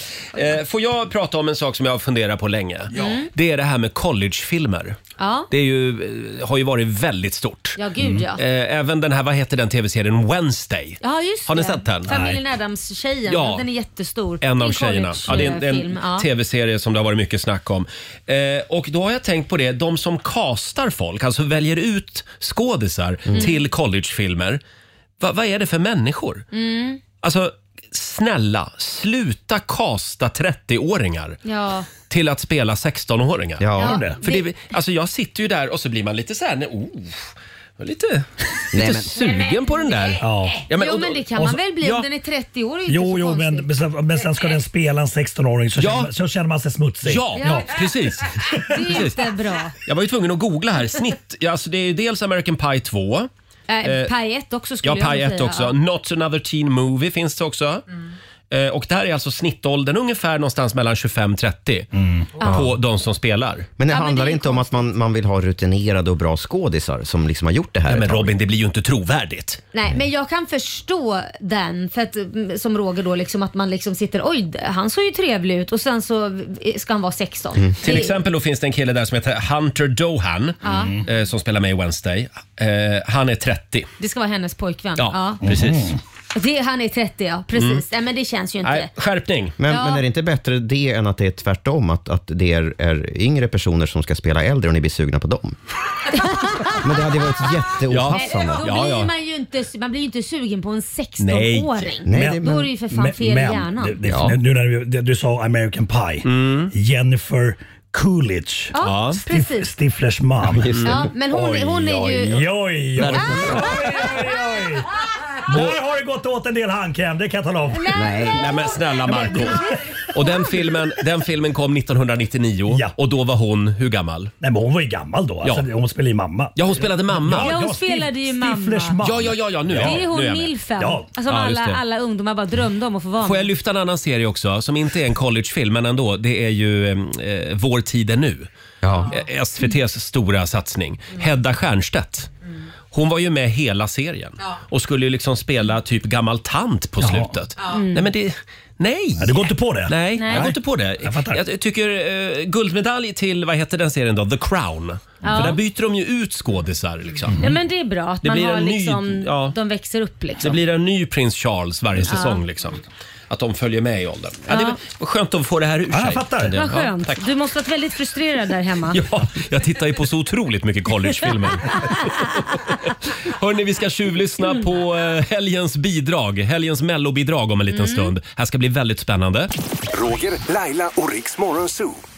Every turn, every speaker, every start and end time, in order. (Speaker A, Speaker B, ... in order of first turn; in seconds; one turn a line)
Speaker A: 0.3-5.0
Speaker B: 2.9-3.3
Speaker B: 5.2-5.5
Speaker A: 5.5-7.8
Speaker B: 7.8-8.4
Speaker C: 8.0-8.2
Speaker A: 8.4-12.1
Speaker B: 11.0-16.3
Speaker C: 12.1-12.4
Speaker A: 13.3-13.7
Speaker A: 14.4-24.6
Speaker D: 23.3-23.5
Speaker B: 23.3-23.6
Speaker A: 25.2-26.4
Speaker B: 26.5-27.0
Speaker A: 27.2-31.4
Speaker B: 31.4-31.9
Speaker A: 32.1-42.1
Speaker D: 33.6-34.0
Speaker C: 33.8-34.2
Speaker B: 33.8-34.5
Speaker D: 38.7-39.1
Speaker B: 39.1-43.7
Speaker C: 40.2-40.6
Speaker C: 42.9-47.9
Speaker A: 45.8-46.1
Speaker A: 47.0-49.3
Speaker B: 47.4-47.7
Speaker B: 48.6-49.8
Speaker A: 49.9-53.3
Speaker B: 53.7-55.8
Speaker A: 53.8-54.1
Speaker A: 54.8-57.8
Speaker A: 58.5-61.9
Speaker C: 61.9-62.3
Speaker B: 62.4-62.7
Speaker A: 62.4-63.7
Speaker D: 63.8-68.3
Speaker B: 63.9-64.8
Speaker A: 67.9-69.6
Speaker B: 69.7-78.2
Speaker A: 77.8-83.9
Speaker B: 80.6-81.0
Speaker C: 80.7-81.0
Speaker B: 84.0-85.5
Speaker A: 85.0-86.0
Speaker C: 85.4-86.0
Speaker B: 86.3-88.9
Speaker A: 87.5-87.8
Speaker A: 88.6-89.6
Speaker D: 89.6-95.6
Speaker B: 89.7-90.0
Speaker B: 96.1-96.8
Speaker D: 96.8-98.7
Speaker A: 97.9-99.1
Speaker B: 98.1-104.0
Speaker A: 101.2-101.9
Speaker D: 102.1-102.6
Speaker C: 102.1-108.7
Speaker D: 104.1-104.4
Speaker A: 106.2-106.7
Speaker B: 108.7-109.7
Speaker A: 108.8-109.2
Speaker C: 109.3-114.9
Speaker D: 110.5-111.0
Speaker A: 110.7-111.0
Speaker B: 110.8-112.5
Speaker A: 113.0-113.7
Speaker B: 113.1-114.1
Speaker C: 115.5-117.9
Speaker A: 115.5-115.8
Speaker B: 117.7-118.7
Speaker D: 117.9-118.4
Speaker A: 118.3-124.3
Speaker C: 119.0-119.7
Speaker C: 124.4-130.0
Speaker A: 126.6-127.5
Speaker B: 127.4-129.0
Speaker A: 129.0-130.6
Speaker B: 129.8-133.5
Speaker C: 130.8-131.1
Speaker A: 131.3-131.8
Speaker A: 133.2-138.5
Speaker D: 138.8-139.1
Speaker A: 139.1-142.3
Speaker A: 142.9-157.5
Speaker C: 147.0-147.3
Speaker B: 147.7-148.1
Speaker C: 149.2-151.4
Speaker B: 150.1-150.5
Speaker B: 155.2-155.6
Speaker C: 157.3-157.6
Speaker B: 157.4-160.6
Speaker A: 158.2-159.6
Speaker A: 160.4-167.2
Speaker B: 162.1-162.4
Speaker B: 164.5-164.8
Speaker C: 165.9-166.6
Speaker B: 166.5-169.0
Speaker A: 168.9-179.5
Speaker B: 177.7-178.1
Speaker E: 179.9-182.0